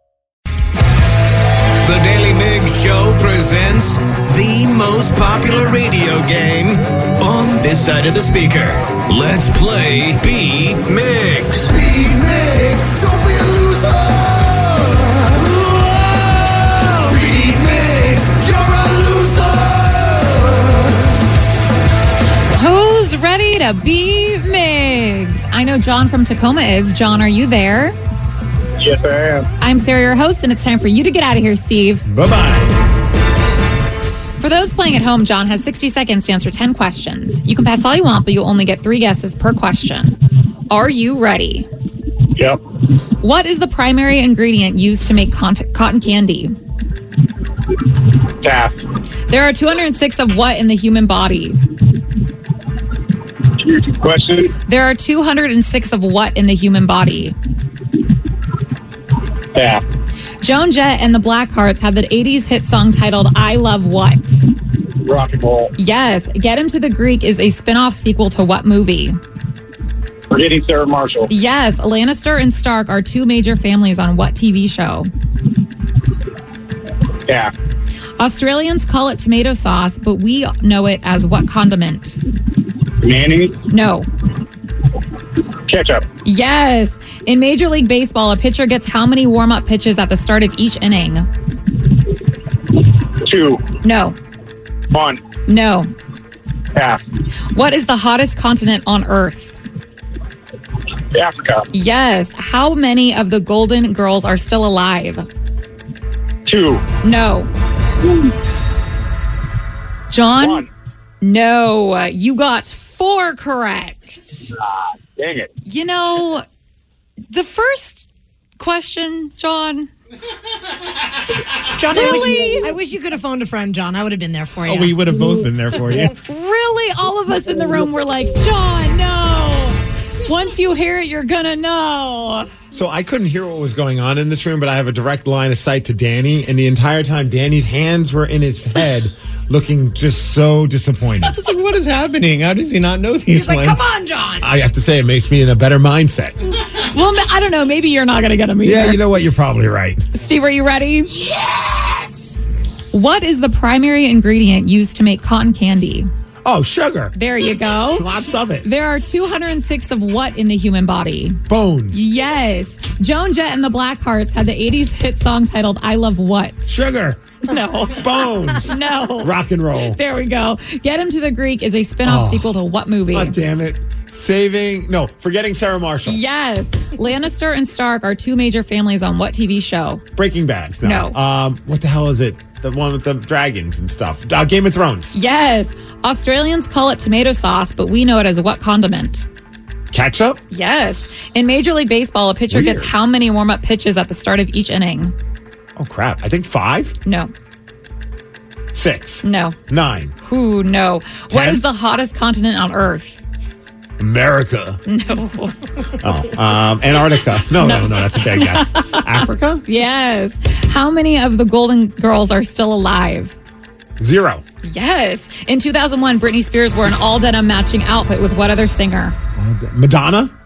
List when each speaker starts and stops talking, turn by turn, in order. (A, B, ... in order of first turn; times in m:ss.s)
0:01.8-0:20.9 A
0:22.5-0:28.0 B
0:28.8-0:29.5 C
0:29.6-0:32.0 B
0:32.1-0:32.7 D
0:34.4-0:40.2 B
0:40.7-0:41.7 B
0:42.4-0:42.6 C
0:43.2-0:46.5 B
0:48.4-0:48.8 C
0:49.3-0:51.6 B
0:53.6-0:54.5 C
0:54.7-0:57.4 B
0:59.5-0:59.8 C
1:00.4-1:04.4 B
1:05.0-1:05.7 C
1:05.8-1:09.2 B
1:10.3-1:11.3 C
1:11.3-1:15.1 B
1:17.3-1:17.5 C
1:18.2-1:22.2 B
1:23.0-1:23.6 C
1:23.7-1:24.1 B
1:25.7-1:26.1 C
1:26.2-1:31.3 B
1:33.2-1:33.6 C
1:33.8-1:34.2 B
1:34.9-1:35.2 C
1:35.5-1:35.9 B
1:36.8-1:37.0 C
1:37.5-1:39.6 B
1:41.1-1:41.6 C
1:41.7-1:45.3 B
1:46.5-1:46.8 C
1:47.0-1:47.5 B
1:50.1-1:50.7 B
1:50.4-1:50.7 C
1:51.2-1:54.5 B
1:54.6-1:55.5 C
1:55.6-1:56.5 B
1:57.3-1:59.9 B
2:01.6-2:05.0 E
2:01.9-2:02.7 B
2:04.6-2:06.1 D
2:06.1-2:12.5 B
2:12.7-2:26.4 D
2:23.3-2:24.5 E
2:26.8-2:29.0 B
2:28.6-2:30.0 D
2:30.1-2:31.2 B
2:32.9-2:36.1 B
2:36.4-2:37.2 D
2:37.2-2:38.1 B
2:37.9-2:38.7 D
2:38.6-2:41.4 B
2:41.5-2:42.1 D
2:41.9-2:46.7 B
2:46.7-2:47.2 D
2:47.5-2:53.4 B
2:47.9-2:50.0 D
2:52.0-2:52.6 D
2:53.1-2:56.2 D
2:56.0-3:00.0 B
3:00.2-3:05.1 D
3:00.8-3:01.2 B
3:05.1-3:09.2 B
3:09.9-3:10.4 D
3:10.5-3:15.1 B
3:12.5-3:13.0 D
3:15.8-3:17.0 D
3:17.0-3:17.3 B
3:18.7-3:20.1 D
3:19.2-3:19.6 B
3:20.2-3:23.2 B
3:21.3-3:21.6 D
3:24.0-3:24.8 D
3:24.9-3:25.6 B
3:26.0-3:29.6 D
3:27.6-3:29.1 B
3:29.6-3:33.4 B
3:34.0-3:34.4 D
3:34.6-3:39.2 B
3:39.4-3:40.3 D